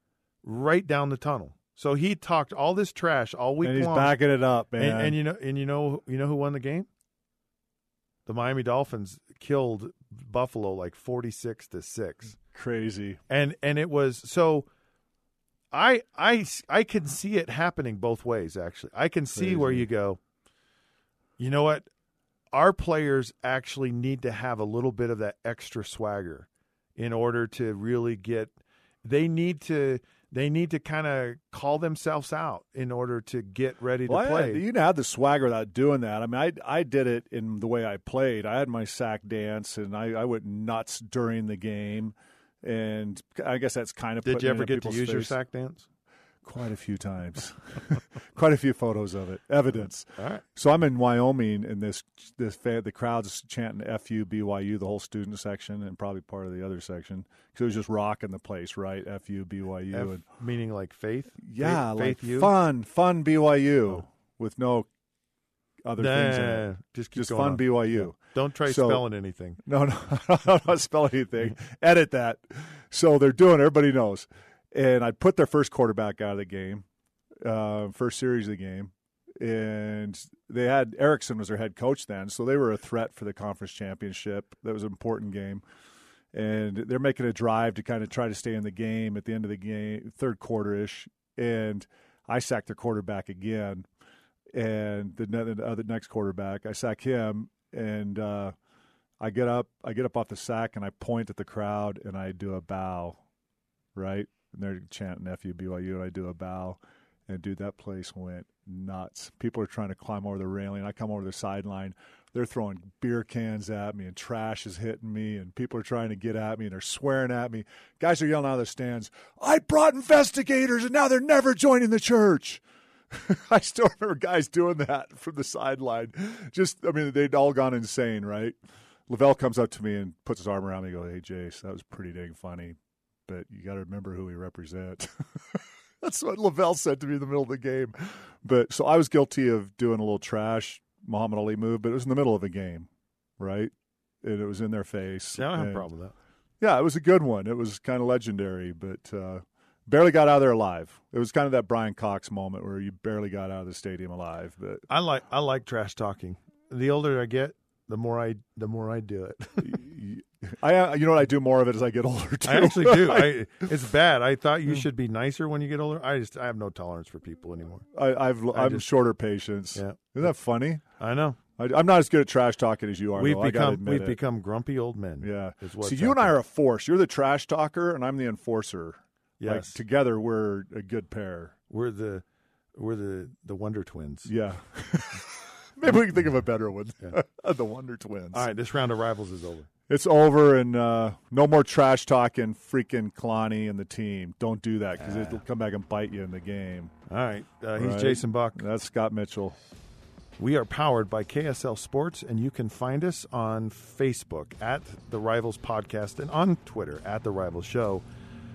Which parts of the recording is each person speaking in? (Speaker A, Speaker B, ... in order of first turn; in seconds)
Speaker A: 0.4-4.2, 4.8-6.9, 8.3-12.4, 13.3-14.7, 15.7-20.2, 21.4-21.9, 22.5-34.6, 44.2-45.9, 50.2-50.4, 59.9-62.5, 66.0-69.6, 145.3-146.1, 154.9-159.7, 162.4-167.9, 168.5-168.9, 169.8-170.3, 171.0-171.4, 173.2-176.3, 179.4-179.8, 181.7-182.2, 182.8-184.3, 188.3-189.7, 195.1-195.3, 197.1-198.6, 200.4-208.1
Speaker B: 3.6-5.2, 12.5-13.2, 19.4-19.9, 34.1-45.4, 46.4-60.2, 61.4-64.9, 65.8-69.0, 69.7-76.9, 77.5-85.6, 86.3-93.9, 94.5-98.5, 99.2-103.2, 104.0-128.6, 129.1-132.8, 133.3-143.7, 144.2-145.9, 146.6-154.8, 159.6-163.5, 167.9-170.8, 171.6-174.2, 175.2-181.5, 184.3-188.5, 189.9-196.9, 197.8-199.6